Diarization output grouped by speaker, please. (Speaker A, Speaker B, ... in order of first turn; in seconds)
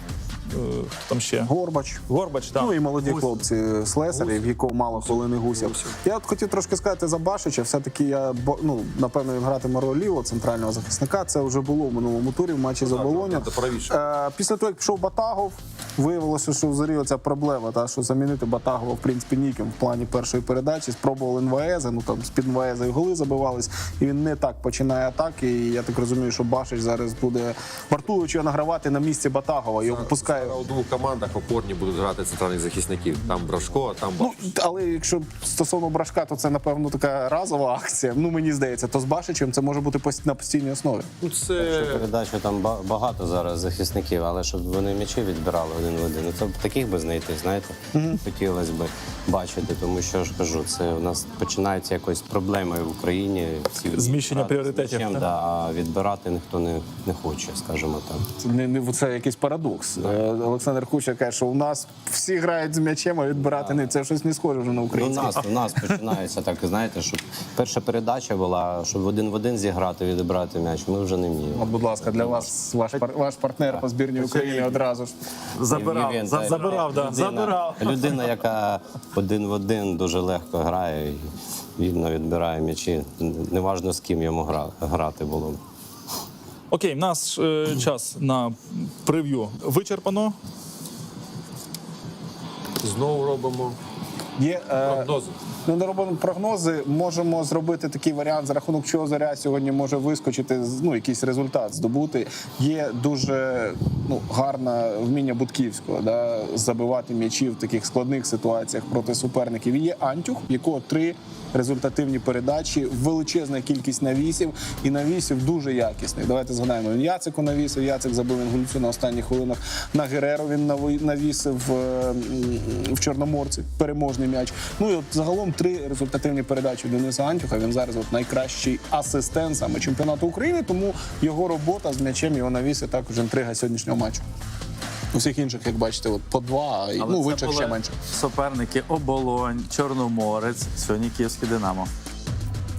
Speaker A: 0.5-1.5, 2.1-2.8, 53.9-55.3, 76.5-78.0, 86.7-90.4
Speaker B: 1.4-30.6, 34.2-41.1, 47.9-48.2, 58.4-65.6, 71.5-75.1, 94.4-95.1, 95.6-134.2, 135.1-137.9
Speaker C: 4.1-5.9, 12.8-14.0, 29.9-34.4, 41.2-42.1, 92.8-93.8, 94.8-95.3
Speaker D: 41.6-58.2, 63.4-63.9, 64.9-72.5, 75.7-85.6
Speaker E: 74.2-74.8, 75.5-78.1, 137.0-141.9